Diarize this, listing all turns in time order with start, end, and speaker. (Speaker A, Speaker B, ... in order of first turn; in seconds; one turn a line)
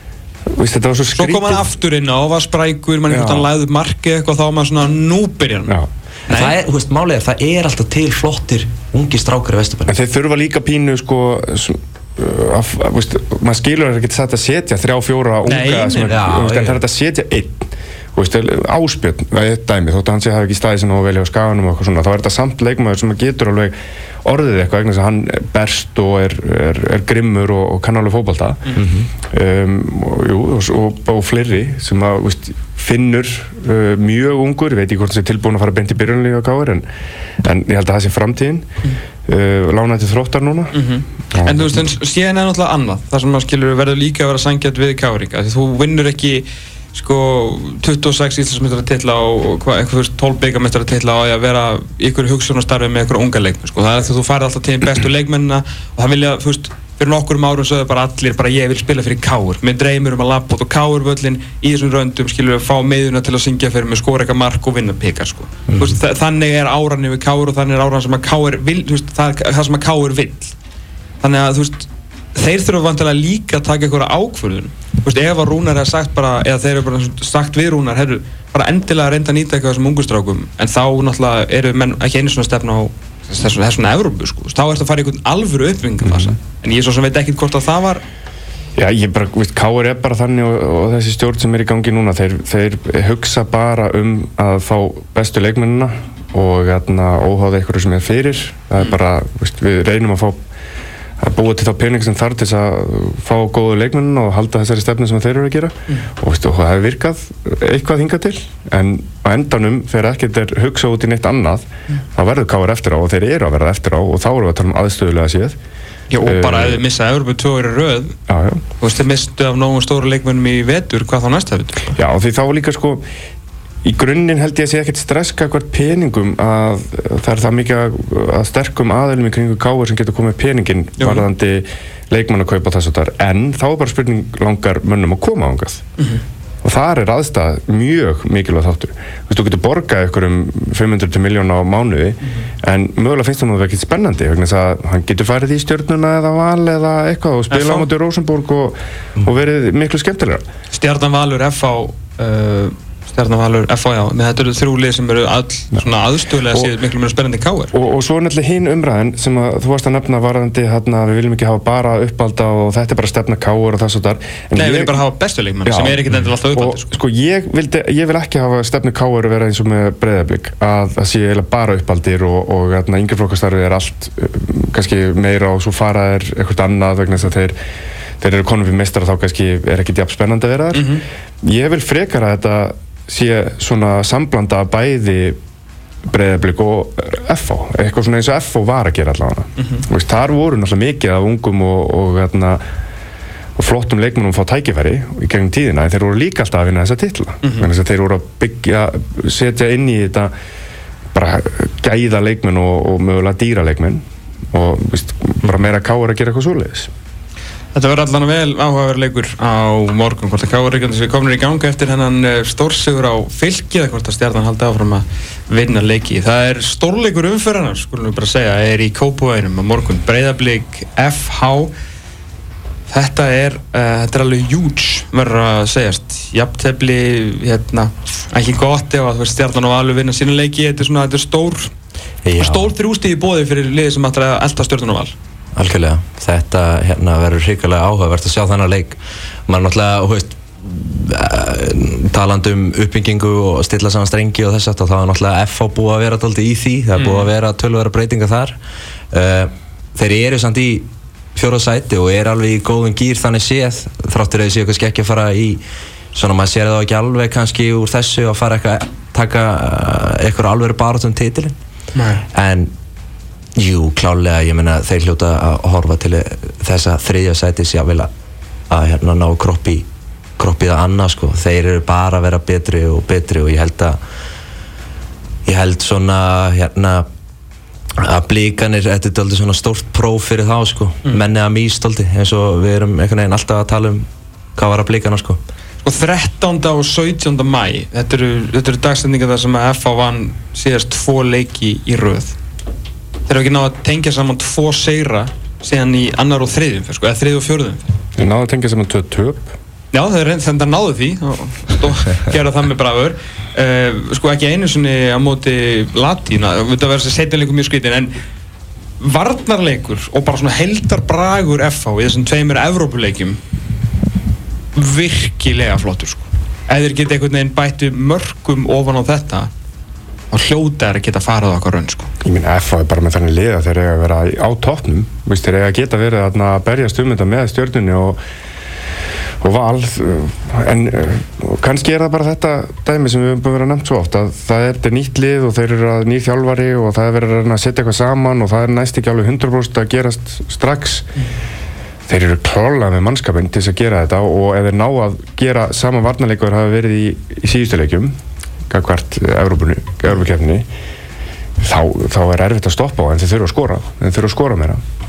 Speaker A: 0.5-1.6
Speaker B: 1.1-5.7
Speaker A: 3.1-3.5
Speaker B: 6.3-6.5
Speaker C: 6.3-9.9
Speaker A: 9.9-36.9
Speaker B: 15.5-16.1
Speaker C: 16.1-16.8
Speaker C: 28.8-29.1
Speaker A: 37.4-38.7
Speaker A: 39.2-40.8
Speaker B: 40.7-70.5
Speaker A: 41.3-41.8
Speaker C: 65.7-66.0
Speaker B: 71.2-88.0
Speaker A: 86.0-86.3
Speaker A: 88.8-100.4
Speaker A: 101.2-115.6
Speaker B: 116.1-118.2
Speaker A: 116.2-116.8
Speaker A: 118.3-118.6
Speaker B: 118.8-121.9
Speaker A: 121.9-123.0
Speaker A: 123.8-135.8
Speaker B: 131.0-131.2
Speaker A: 136.6-150.4
Speaker B: 147.5-147.9
Speaker B: 150.7-157.7
Speaker A: 157.7-165.0
Speaker B: 164.5-166.9
Speaker A: 165.6-177.6
Speaker A: 178.2-185.4
Speaker B: 180.7-181.0
Speaker A: 186.0-192.6
Speaker B: 189.6-189.8
Speaker A: 193.6-200.3
Speaker B: 197.4-197.7
Speaker A: 201.1-206.9
Speaker B: 207.7-221.7
Speaker B: 222.9-231.7
Speaker C: 232.2-232.7
Speaker B: 232.4-235.1
Speaker C: 235.5-248.6
Speaker B: 246.9-247.3
Speaker C: 249.1-255.6
Speaker C: 256.1-261.5
Speaker B: 261.9-262.2
Speaker C: 262.3-262.7
Speaker C: 263.6-268.1
Speaker C: 268.7-269.9
Speaker C: 270.4-274.0
Speaker C: 275.4-277.1
Speaker C: 278.0-285.4
Speaker B: 285.8-292.4
Speaker B: 293.3-297.9
Speaker A: 298.2-299.5
Speaker B: 299.9-308.1
Speaker B: 309.0-313.4
Speaker B: 314.7-319.5
Speaker B: 320.3-322.1
Speaker A: 322.2-328.2
Speaker A: 329.4-341.1
Speaker A: 342.1-348.1
Speaker A: 348.7-350.6
Speaker A: 351.6-354.8